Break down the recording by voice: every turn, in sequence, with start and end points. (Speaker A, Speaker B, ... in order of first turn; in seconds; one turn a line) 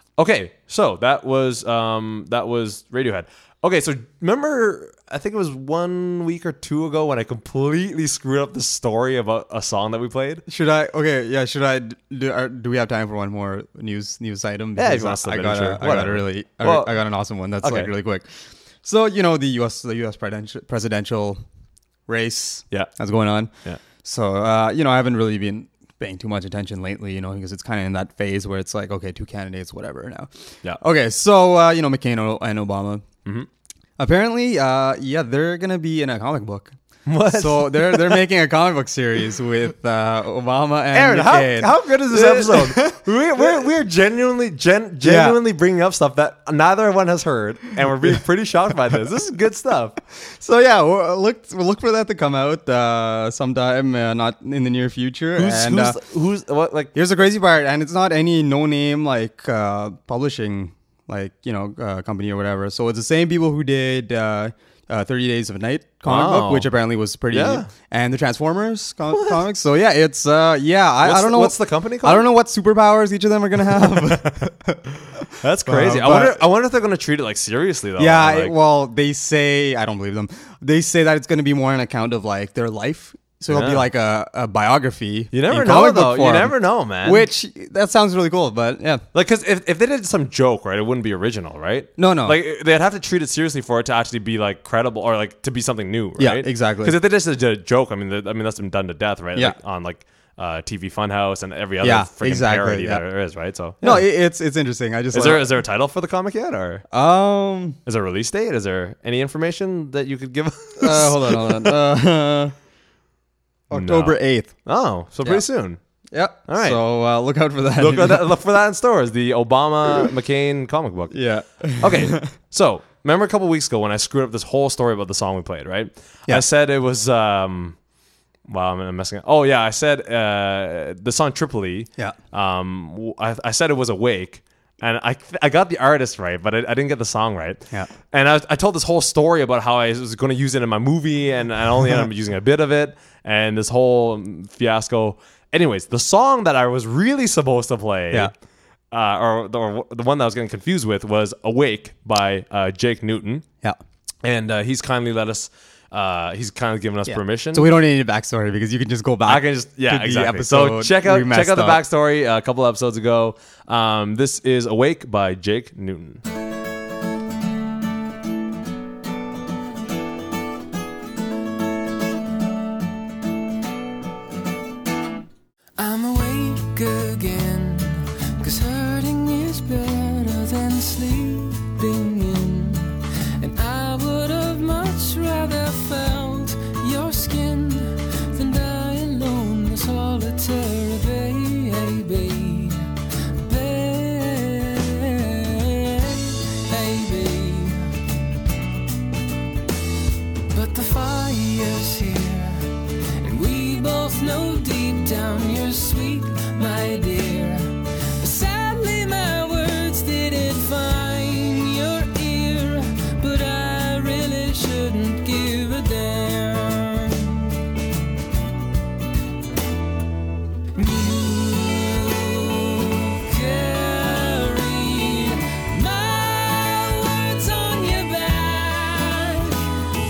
Speaker A: 0.2-10.4
Speaker B: 10.5-18.2
Speaker A: 14.8-16.9
Speaker A: 17.6-17.9
Speaker B: 18.8-21.4
Speaker B: 22.1-23.5
Speaker B: 24.0-33.0
Speaker B: 34.0-36.7
Speaker A: 37.0-38.2
Speaker B: 37.3-43.6
Speaker A: 40.9-50.0
Speaker B: 45.0-45.4
Speaker B: 50.1-56.0
Speaker A: 55.4-56.9
Speaker B: 56.9-76.4
Speaker A: 66.0-66.7
Speaker A: 67.3-67.7
Speaker A: 69.1-69.4
Speaker A: 71.0-72.3
Speaker A: 73.7-74.5
Speaker A: 75.3-78.5
Speaker B: 78.0-89.0
Speaker A: 83.5-83.9
Speaker A: 85.3-87.2
Speaker A: 89.1-104.0
Speaker B: 92.0-92.4
Speaker B: 96.2-97.0
Speaker B: 101.8-103.0
Speaker B: 103.8-105.5
Speaker A: 105.1-106.8
Speaker B: 106.9-107.8
Speaker A: 107.8-111.8
Speaker B: 110.8-112.5
Speaker B: 113.7-114.5
Speaker A: 113.7-115.8
Speaker B: 116.1-118.3
Speaker A: 116.5-116.8
Speaker A: 117.8-121.2
Speaker B: 121.1-122.3
Speaker A: 121.8-127.8
Speaker A: 128.5-148.3
Speaker A: 148.9-153.4
Speaker A: 154.2-157.7
Speaker B: 157.1-161.8
Speaker A: 159.2-166.2
Speaker C: 175.8-197.9
Speaker C: 200.5-217.5
Speaker C: 220.8-229.7